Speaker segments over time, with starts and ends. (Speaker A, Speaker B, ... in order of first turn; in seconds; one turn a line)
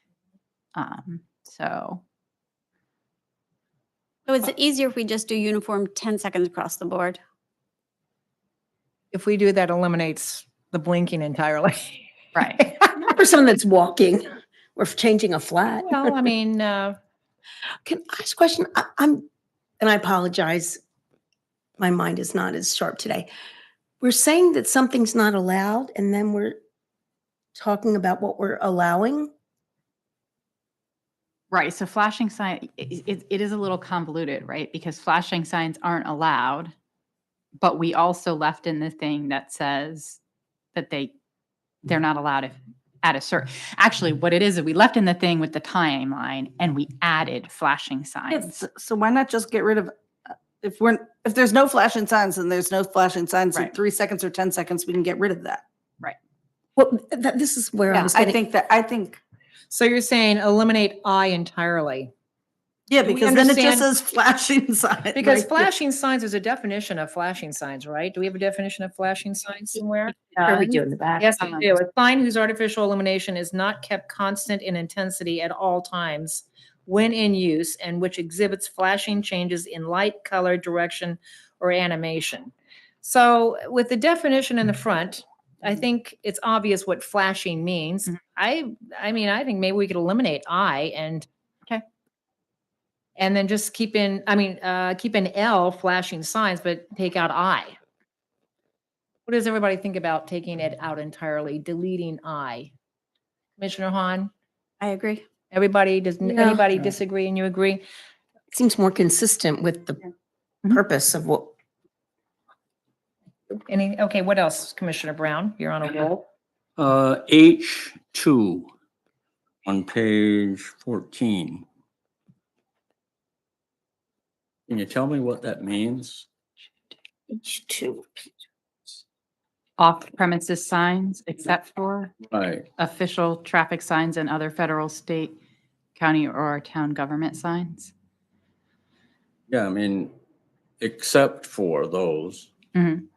Speaker A: 0.8-2.0
Speaker B: 4.3-7.2
Speaker C: 9.1-12.9
Speaker A: 12.3-12.6
Speaker D: 12.9-16.1
Speaker C: 15.9-16.9
Speaker D: 17.9-19.2
Speaker D: 19.8-20.8
Speaker D: 21.8-23.3
Speaker D: 24.0-26.6
Speaker D: 27.6-29.3
Speaker A: 31.5-36.7
Speaker A: 37.6-40.2
Speaker A: 40.8-41.1
Speaker A: 41.9-48.5
Speaker E: 48.3-55.6
Speaker D: 56.8-58.4
Speaker E: 57.9-59.2
Speaker C: 59.7-62.1
Speaker E: 62.9-65.7
Speaker C: 63.0-63.9
Speaker C: 65.2-70.3
Speaker D: 70.4-71.3
Speaker C: 71.2-91.3
Speaker C: 93.2-97.8
Speaker C: 99.3-102.7
Speaker C: 103.6-104.3
Speaker B: 104.8-105.2
Speaker C: 105.5-107.8
Speaker D: 106.2-106.6
Speaker D: 108.5-110.0
Speaker D: 110.7-111.5
Speaker C: 113.7-116.2
Speaker F: 116.8-118.7
Speaker F: 119.7-121.7
Speaker F: 124.7-126.3
Speaker D: 127.3-128.3
Speaker A: 129.8-132.2
Speaker F: 132.3-132.7
Speaker A: 132.8-135.4
Speaker A: 136.0-137.9
Speaker F: 139.5-140.1
Speaker F: 140.8-142.5
Speaker A: 142.8-143.1